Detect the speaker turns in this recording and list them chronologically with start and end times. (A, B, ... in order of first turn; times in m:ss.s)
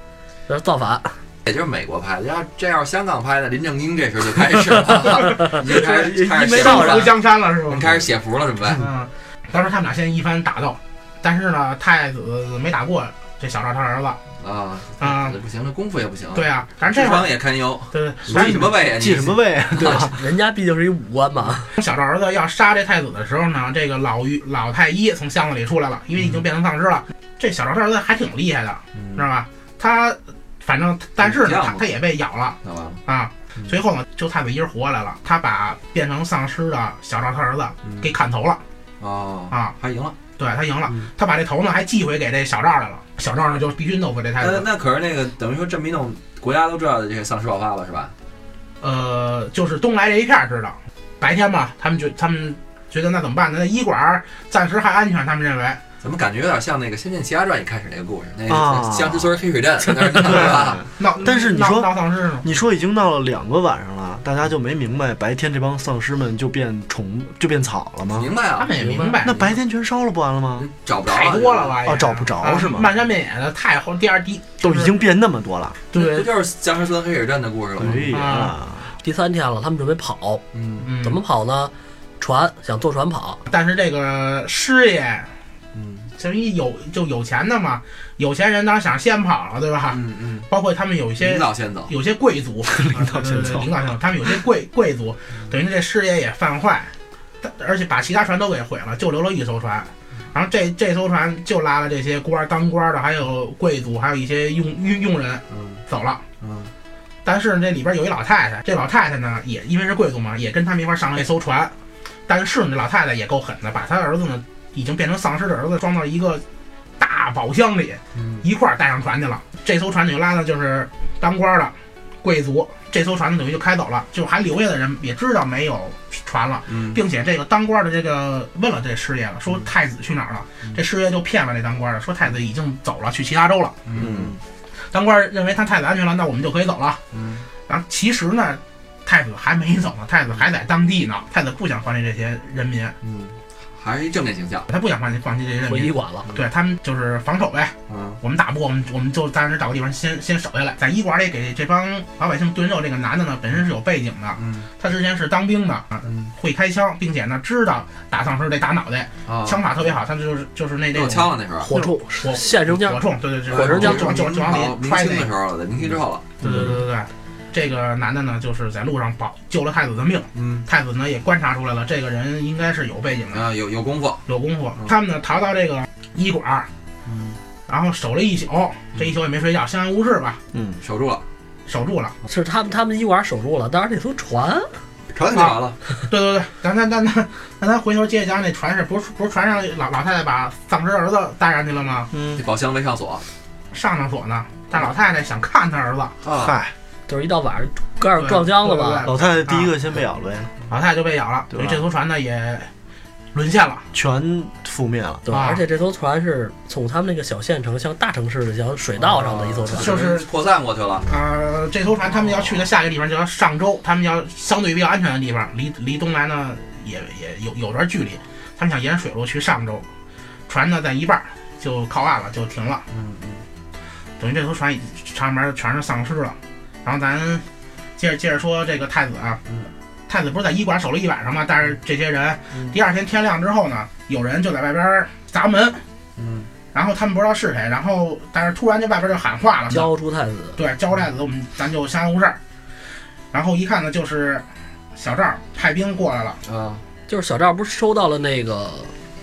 0:00.5-0:01.2 A
0:01.4-0:08.9 B
0:04.8-0:07.1 A
0:06.5-0:08.1 C
0:08.8-0:14.2 C
0:14.4-0:20.1 B
0:15.0-0:15.4 C
0:16.4-0:17.3 C
0:17.9-0:18.8 C
0:18.3-0:20.2 D
0:19.8-0:21.7 A
0:21.8-0:38.6 C
0:29.0-0:29.3 B
0:31.2-0:31.9 B
0:32.6-0:33.0 B
0:37.8-0:38.1 B
0:39.0-0:40.2 B
0:40.4-0:44.7 C
0:44.4-0:48.1 B
0:48.8-0:55.8 C
0:56.0-1:00.8 B
0:58.5-0:59.3 D
1:00.0-1:08.3 D
1:00.3-1:02.5 C
1:08.1-1:09.1 B
1:08.6-1:09.6 C
1:08.9-1:09.1 A
1:09.2-1:10.7 D
1:10.6-1:11.8 B
1:11.1-1:14.9 C
1:11.8-1:12.9 D
1:14.6-1:15.8 D
1:15.9-1:16.3 C
1:15.9-1:18.2 B
1:17.8-1:18.9 D
1:18.1-1:18.6 C
1:19.0-1:20.4 A
1:20.5-1:20.9 B
1:20.8-1:21.2 C
1:21.0-1:23.4 A
1:23.5-1:25.3 C
1:25.7-1:26.1 B
1:26.2-1:46.2 C
1:29.9-1:30.5 B
1:31.2-1:31.9 B
1:32.7-1:33.7 D
1:45.5-1:45.8 B
1:46.4-1:46.7 B
1:47.2-1:51.7 C
1:52.3-1:56.4 C
1:57.0-2:13.8 C
1:58.2-1:58.5 B
2:06.7-2:07.0 B
2:13.8-2:14.4 B
2:14.0-2:14.4 D
2:14.9-2:17.0 C
2:17.1-2:17.5 B
2:17.7-2:23.0 C
2:23.0-2:24.7 B
2:24.7-2:45.3 C
2:25.7-2:26.3 A
2:27.9-2:28.2 B
2:34.4-2:34.7 B
2:36.0-2:36.3 B
2:39.3-2:39.9 B
2:40.9-2:41.7 B
2:41.6-2:44.1 A
2:43.5-2:46.8 B
2:46.4-2:53.4 C
2:46.4-2:46.7 D
2:50.4-2:50.7 B
2:53.3-2:54.2 B
2:54.3-2:56.7 C
2:57.1-2:57.4 B
2:57.7-3:00.4 C
3:00.5-3:00.8 D
3:00.8-3:01.2 B
3:01.7-3:02.2 C
3:02.3-3:04.8 A
3:05.1-3:05.8 B
3:05.3-3:12.1 C
3:12.1-3:12.4 D
3:12.4-3:13.2 B
3:13.7-3:16.2 C
3:16.2-3:16.6 B
3:16.4-3:16.7 D
3:17.1-3:19.1 A
3:18.2-3:19.7 C
3:19.0-3:20.5 D
3:20.7-3:22.7 C
3:21.5-3:21.8 D
3:23.3-3:23.9 C
3:23.9-3:25.3 D
3:25.3-3:30.0 A
3:25.3-3:25.6 C
3:29.0-3:29.5 D
3:29.6-3:31.1 B
3:29.8-3:30.3 C
3:31.0-3:39.9 C
3:40.5-3:42.8 C
3:42.9-3:43.4 B
3:44.2-3:47.5 C
3:48.0-3:49.4 C
3:50.1-3:55.8 C
3:56.2-3:56.5 B
3:56.7-3:59.9 C
3:59.7-4:00.6 A
4:00.6-4:02.4 C
4:03.3-4:06.4 C
4:06.4-4:06.8 B
4:07.1-4:08.9 A